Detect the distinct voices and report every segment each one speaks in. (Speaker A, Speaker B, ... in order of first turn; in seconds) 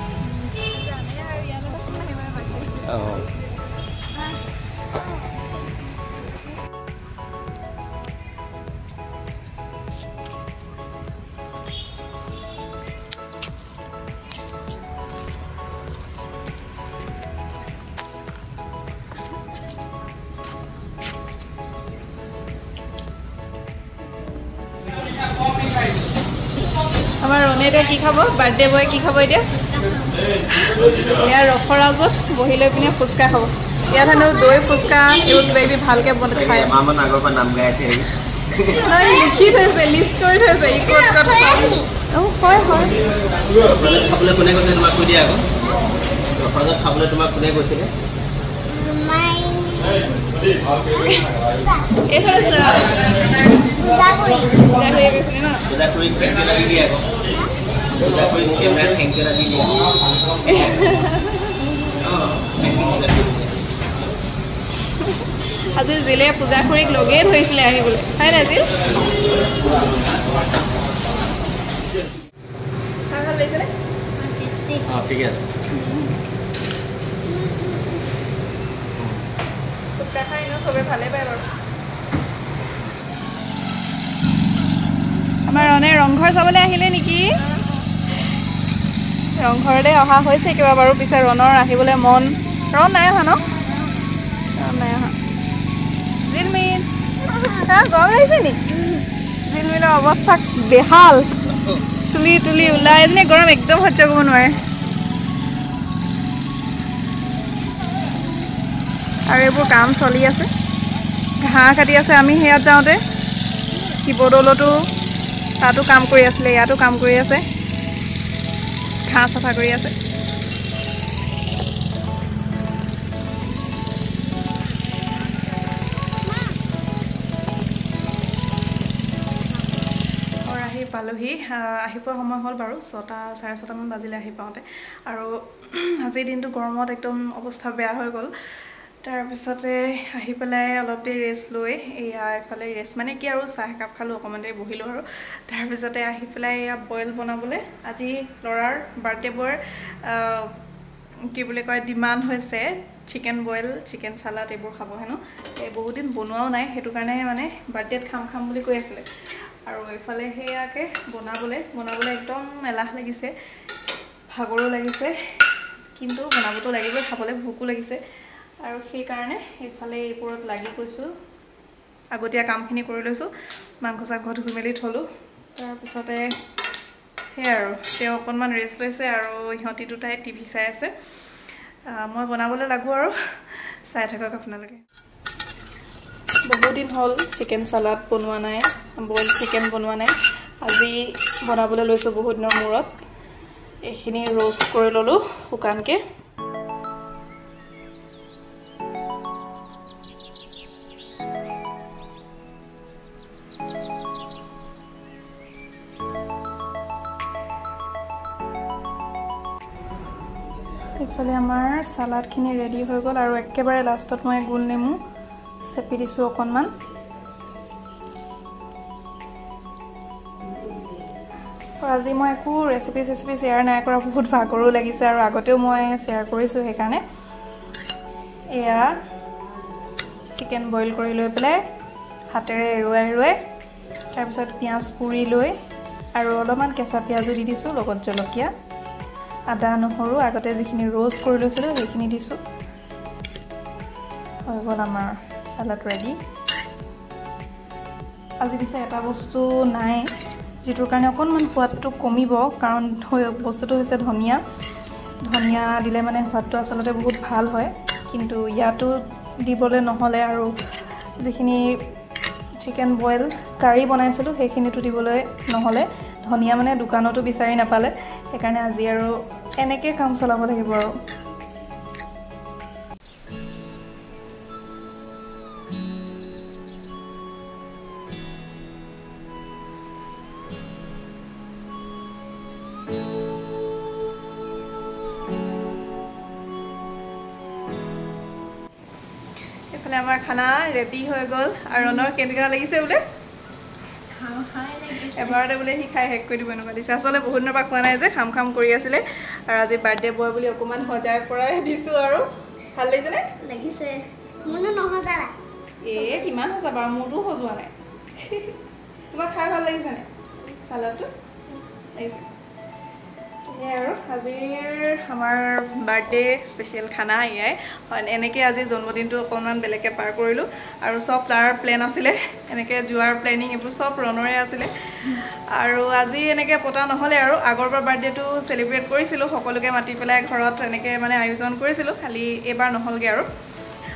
Speaker A: 0.2-3.1, 4.1-4.4, 27.2-29.5, 30.6-36.7, 38.8-43.0, 50.9-51.3, 52.1-53.1, 54.6-55.7, 60.4-61.7, 65.0-68.7, 73.1-73.7, 80.0-81.5, 85.5-87.3, 89.3-93.4, 94.5-95.1, 96.2-98.9, 99.4-101.3, 102.0-104.6, 109.3-110.5, 111.4-113.0, 114.0-114.7, 115.6-117.4, 119.0-119.9, 130.4-138.3, 139.0-150.6, 151.3-159.1, 159.7-163.3, 164.3-165.1, 166.0-168.0, 168.6-171.1, 172.1-173.3, 173.8-176.3, 177.3-180.9, 181.9-184.8, 186.5-192.9, 193.8-196.0, 210.9-215.0, 215.6-216.7, 221.8-227.0, 228.5-228.9, 230.3-231.6, 232.3-233.4, 234.1-235.5, 236.1-238.5, 239.5-242.4, 244.4-246.2, 248.4-250.1, 250.6-254.4, 255.2-260.5, 261.2-261.6, 262.6-270.9, 289.7-293.0, 295.1-303.2, 305.8-308.6, 309.1-310.1, 310.6-311.1, 311.9-312.2, 313.5-333.3
Speaker B: 2.8-3.3, 36.2-38.9, 43.6-45.5, 46.4-47.9, 55.7-57.1, 57.9-60.0, 61.9-63.6, 74.8-75.5, 79.0-79.2
Speaker C: 40.8-41.9, 48.7-50.5, 51.6-51.9, 53.6-54.9, 74.2-74.9, 77.2-78.0, 126.3-126.6, 129.5-129.8, 294.1-295.4, 303.4-305.3